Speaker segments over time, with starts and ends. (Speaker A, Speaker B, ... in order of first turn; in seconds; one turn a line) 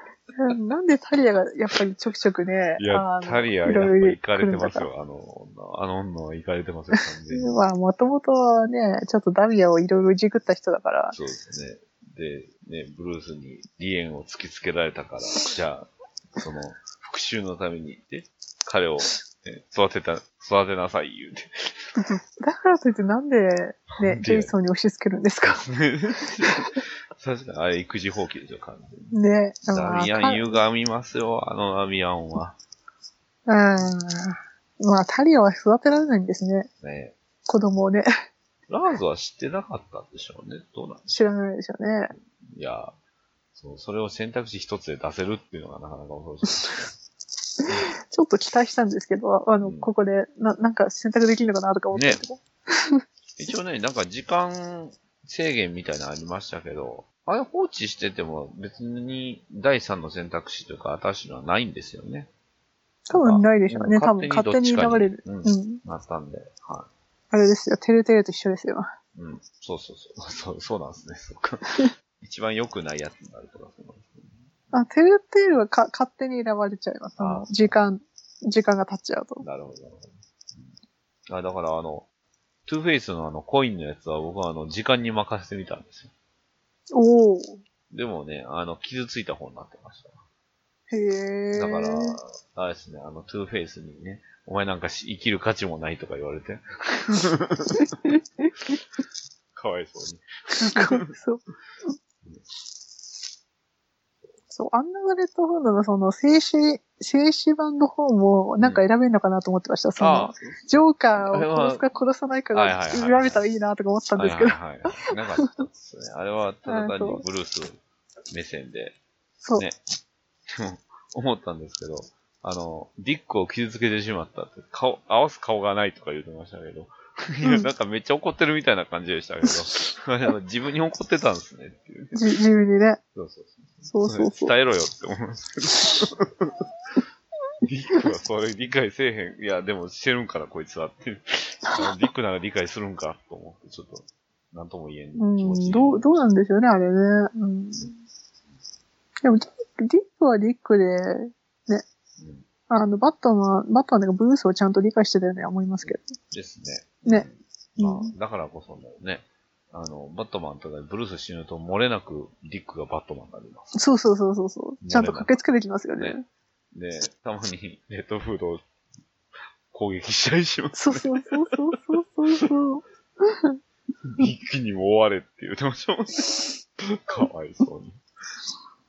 Speaker A: 0.4-4.9
Speaker B: 2.8-7.7
Speaker A: 7.3-11.2
Speaker B: 11.1-21.7
Speaker A: 22.0-25.7
Speaker B: 23.9-24.5
Speaker B: 25.5-29.1
Speaker A: 26.2-26.5
Speaker A: 29.1-30.6
Speaker B: 29.7-32.6
Speaker A: 33.5-36.7
Speaker B: 36.8-37.1
Speaker A: 37.5-38.1
Speaker B: 38.7-41.1
Speaker A: 41.1-42.1
Speaker B: 42.5-43.0
Speaker B: 43.5-46.9
Speaker A: 48.0-53.0
Speaker B: 49.6-49.9
Speaker B: 51.9-52.2
Speaker B: 53.4-62.3
Speaker A: 63.1-65.8
Speaker B: 63.1-66.9
Speaker A: 67.3-68.9
Speaker B: 69.2-74.3
Speaker A: 74.7-79.4
Speaker B: 77.2-77.7
Speaker B: 79.4-80.7
Speaker B: 81.3-82.1
Speaker B: 82.7-86.1
Speaker A: 86.9-87.6
Speaker B: 87.9-90.2
Speaker A: 90.9-92.2
Speaker B: 91.5-98.1
Speaker A: 97.8-98.5
Speaker B: 99.5-101.1
Speaker A: 100.6-101.4
Speaker A: 104.5-115.0
Speaker B: 110.0-111.8
Speaker B: 112.5-113.4
Speaker B: 114.2-117.8
Speaker A: 116.7-117.2
Speaker B: 118.3-119.0
Speaker B: 120.5-132.2
Speaker A: 127.4-127.7
Speaker A: 132.1-133.0
Speaker B: 133.2-136.5
Speaker A: 133.9-134.5
Speaker B: 137.6-146.1
Speaker A: 145.2-148.0
Speaker A: 149.2-151.8
Speaker B: 152.2-152.5
Speaker A: 152.7-156.1
Speaker B: 155.8-163.8
Speaker A: 157.8-158.1
Speaker A: 163.8-166.2
Speaker B: 164.8-165.3
Speaker B: 166.7-168.6
Speaker B: 169.7-171.4
Speaker A: 170.8-173.6
Speaker B: 174.1-178.0